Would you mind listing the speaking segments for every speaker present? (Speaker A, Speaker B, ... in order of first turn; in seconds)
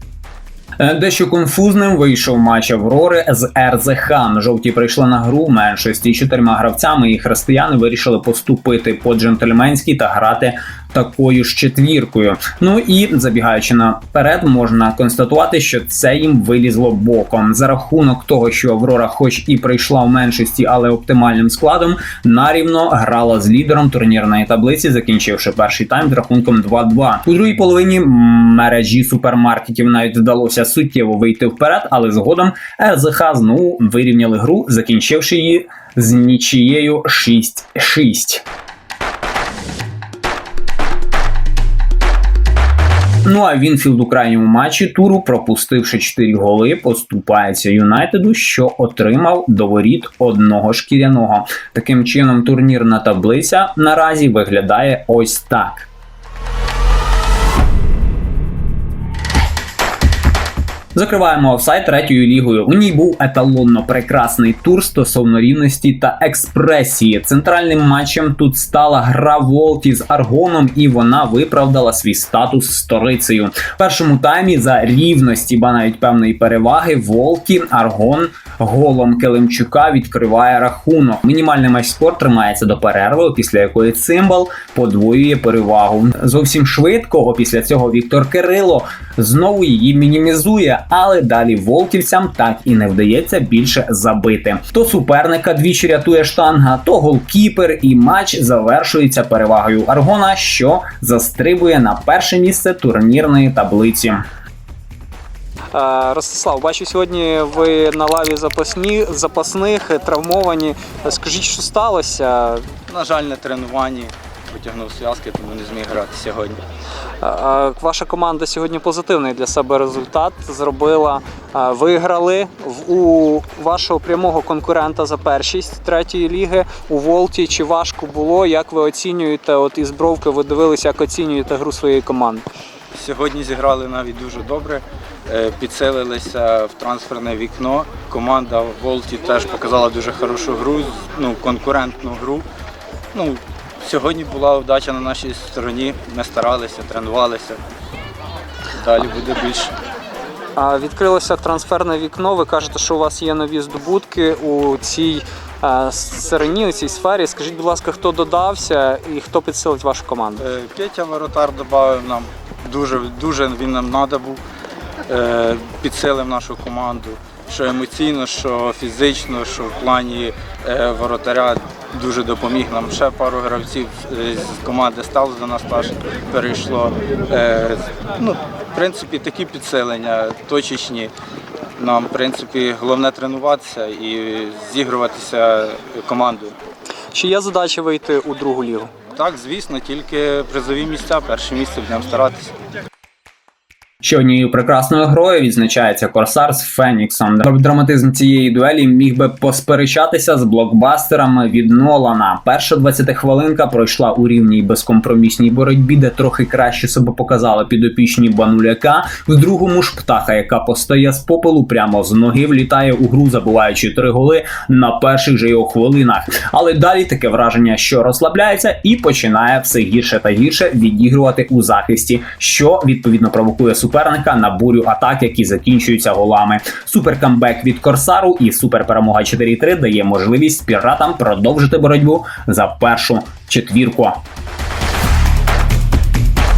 Speaker A: 0.8-38.4, 43.2-55.9, 61.0-104.2, 194.0-234.2
Speaker B: 105.7-112.7, 117.2-132.4, 150.6-160.4, 187.1-188.9
Speaker C: 112.9-116.6, 132.9-142.4, 143.1-147.6, 148.8-149.7, 160.4-164.4, 165.1-181.1, 181.8-186.6, 189.2-192.5